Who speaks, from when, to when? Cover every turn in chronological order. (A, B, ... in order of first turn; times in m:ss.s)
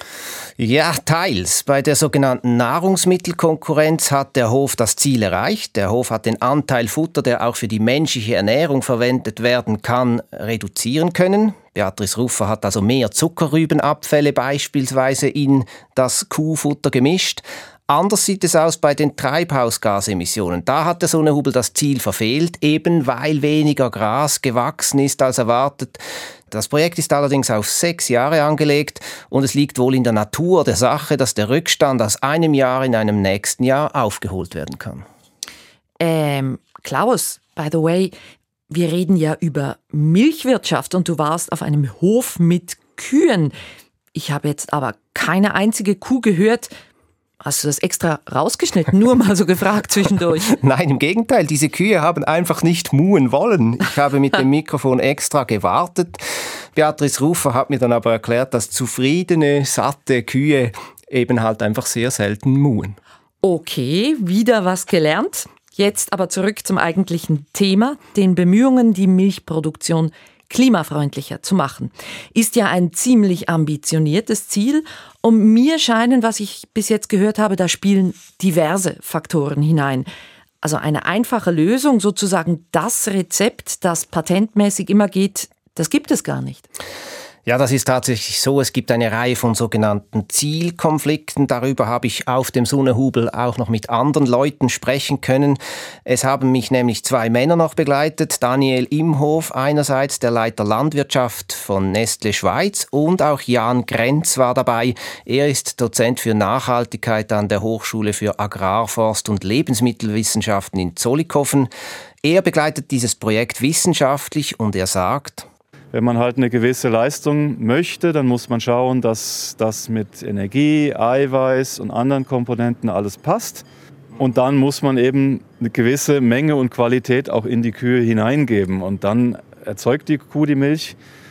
0:00.6-0:35.0 A
0:36.0-0:38.2 B
0:38.7-0:43.6 B
0:44.1-0:46.7 B
0:47.4-0:50.5 B
0:50.5-0:56.2 A
0:56.7-1:03.0 A
1:03.4-1:20.1 B
1:20.6-1:26.7 B
1:27.4-1:51.7 A
1:52.2-1:55.5 A
1:55.9-2:03.6 C
2:04.2-2:11.0 C